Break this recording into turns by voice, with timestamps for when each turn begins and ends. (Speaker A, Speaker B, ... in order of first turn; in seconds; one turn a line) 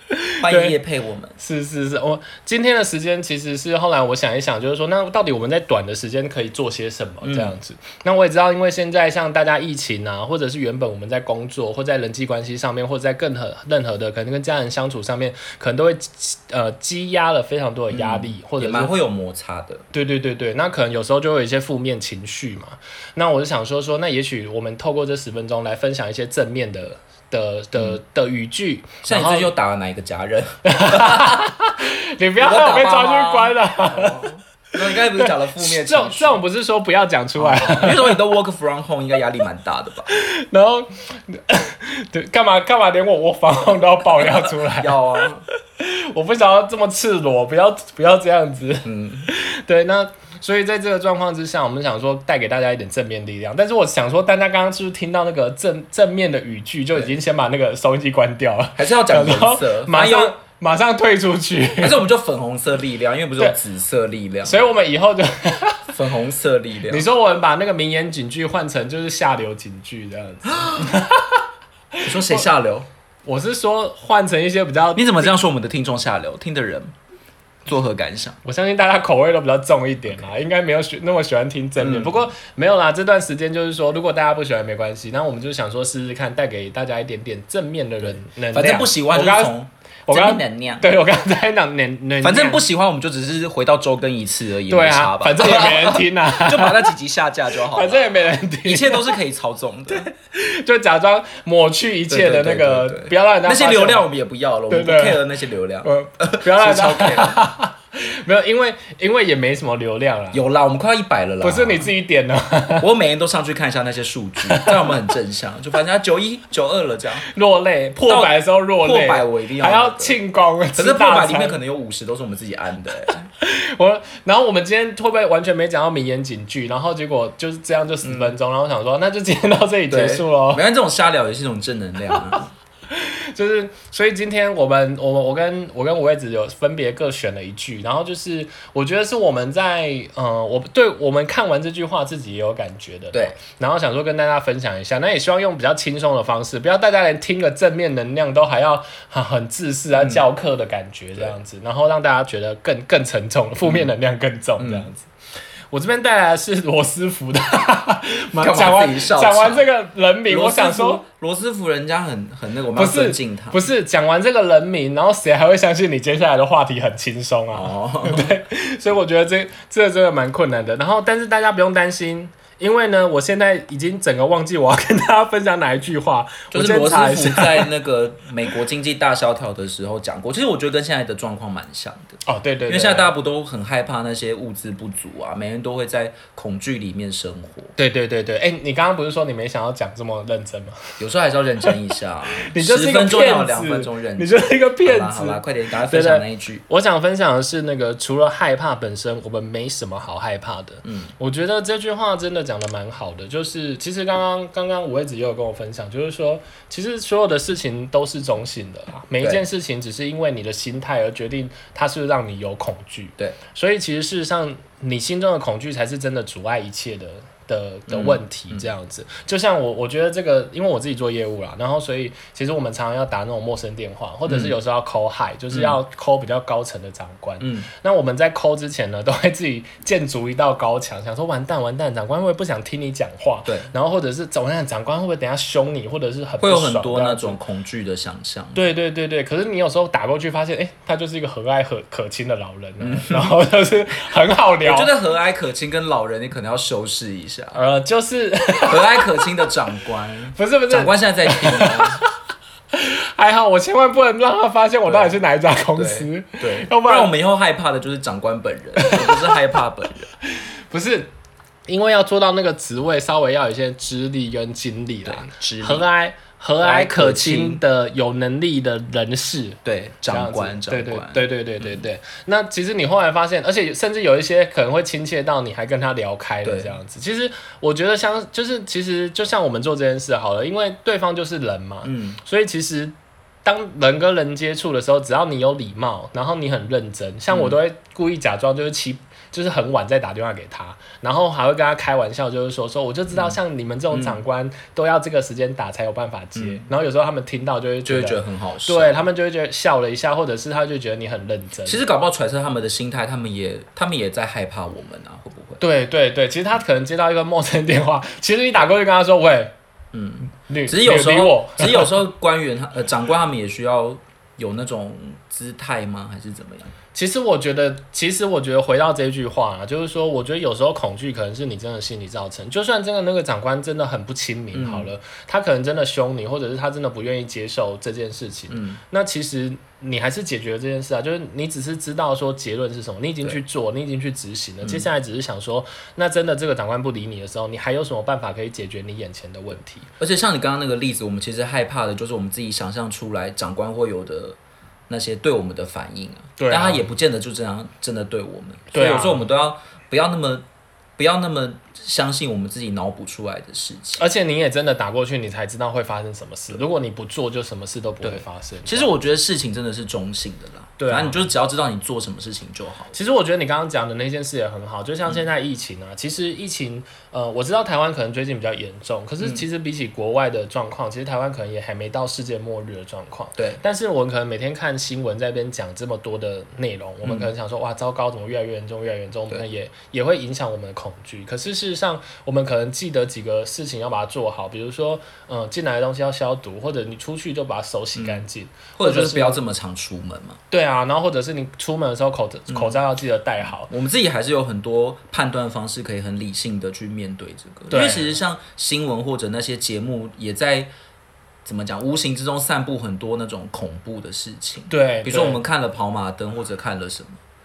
Speaker A: 0.1-0.8
Speaker B: 0.4-1.4
Speaker A: 1.4-18.9
Speaker B: 7.2-7.5
Speaker B: 17.9-19.8
Speaker A: 19.9-29.5
Speaker B: 29.0-31.4
Speaker A: 30.6-34.3
Speaker B: 32.4-36.4
Speaker A: 35.1-38.2
Speaker B: 37.4-40.1
Speaker A: 40.1-45.2
Speaker B: 44.0-45.4
Speaker A: 45.8-62.0
Speaker B: 48.8-49.3
Speaker B: 58.8-60.3
Speaker B: 61.8-64.7
Speaker A: 64.4-65.9
Speaker B: 65.9-67.1
Speaker A: 66.9-71.4
Speaker B: 70.6-70.8
Speaker A: 71.9-72.4
Speaker B: 72.0-72.9
Speaker A: 73.2-75.3
Speaker B: 75.0-76.9
Speaker B: 77.7-78.4
Speaker A: 78.4-89.5
Speaker B: 81.8-82.2
Speaker B: 88.0-90.9
Speaker A: 90.1-92.6
Speaker B: 92.2-100.1
Speaker A: 94.7-96.9
Speaker A: 97.7-99.1
Speaker A: 99.9-104.1
Speaker B: 102.1-107.4
Speaker A: 104.7-105.2
Speaker A: 105.8-110.4
Speaker B: 110.3-111.9
Speaker A: 111.4-112.9
Speaker B: 112.8-117.2
Speaker A: 114.5-114.9
Speaker A: 117.3-121.6
Speaker B: 118.0-120.2
Speaker B: 120.7-123.2
Speaker A: 123.4-130.6
Speaker B: 128.0-128.3
Speaker B: 129.9-132.5
Speaker A: 132.9-155.1
Speaker B: 143.1-143.4
Speaker B: 149.9-150.2
Speaker B: 153.6-153.9
Speaker B: 154.6-154.9
Speaker A: 155.7-161.0
Speaker B: 158.4-159.6
Speaker B: 160.3-163.6
Speaker A: 162.7-177.7
Speaker B: 167.5-168.3
Speaker B: 176.5-187.7
Speaker A: 182.2-183.1
Speaker A: 187.8-191.0
Speaker B: 191.0-196.6
Speaker A: 192.5-237.4
Speaker B: 200.8-201.1
Speaker B: 217.9-218.7
Speaker B: 224.3-224.5
Speaker B: 225.5-225.8
Speaker B: 227.4-227.7
Speaker B: 233.4-233.7
Speaker B: 236.4-238.6
Speaker A: 238.5-244.9
Speaker B: 242.8-243.3
Speaker B: 244.6-247.6
Speaker A: 247.5-249.1
Speaker B: 248.7-252.0
Speaker A: 250.3-252.1
Speaker A: 252.7-257.1
Speaker B: 254.8-255.2
Speaker B: 255.8-260.1
Speaker A: 258.8-259.4
Speaker A: 260.7-261.1
Speaker A: 261.7-282.9
Speaker B: 265.0-265.8
Speaker B: 266.6-267.6
Speaker B: 269.6-271.8
Speaker B: 276.4-276.8
Speaker B: 281.8-282.2
Speaker A: 283.4-301.8
Speaker B: 287.3-287.6
Speaker B: 293.1-293.4
Speaker B: 293.9-294.2
Speaker B: 296.4-296.6
Speaker B: 297.8-299.1
Speaker B: 301.6-305.6
Speaker A: 305.6-309.5
Speaker B: 309.9-316.7
Speaker A: 310.4-311.9
Speaker A: 316.9-339.9
Speaker B: 324.5-324.9
Speaker B: 328.5-328.8
Speaker B: 334.6-334.9
Speaker B: 340.0-344.4
Speaker B: 344.9-350.4
Speaker A: 346.4-346.9
Speaker A: 348.7-349.2
Speaker B: 351.0-354.1
Speaker A: 354.0-358.9
Speaker B: 358.0-362.9
Speaker A: 360.8-361.3
Speaker A: 362.9-389.4
Speaker B: 377.0-377.3
Speaker B: 387.9-388.2
Speaker B: 388.8-390.4
Speaker A: 390.5-393.7
Speaker B: 392.5-392.8
Speaker B: 393.7-400.7
Speaker A: 397.7-398.2
Speaker B: 401.4-407.2
Speaker A: 404.7-405.4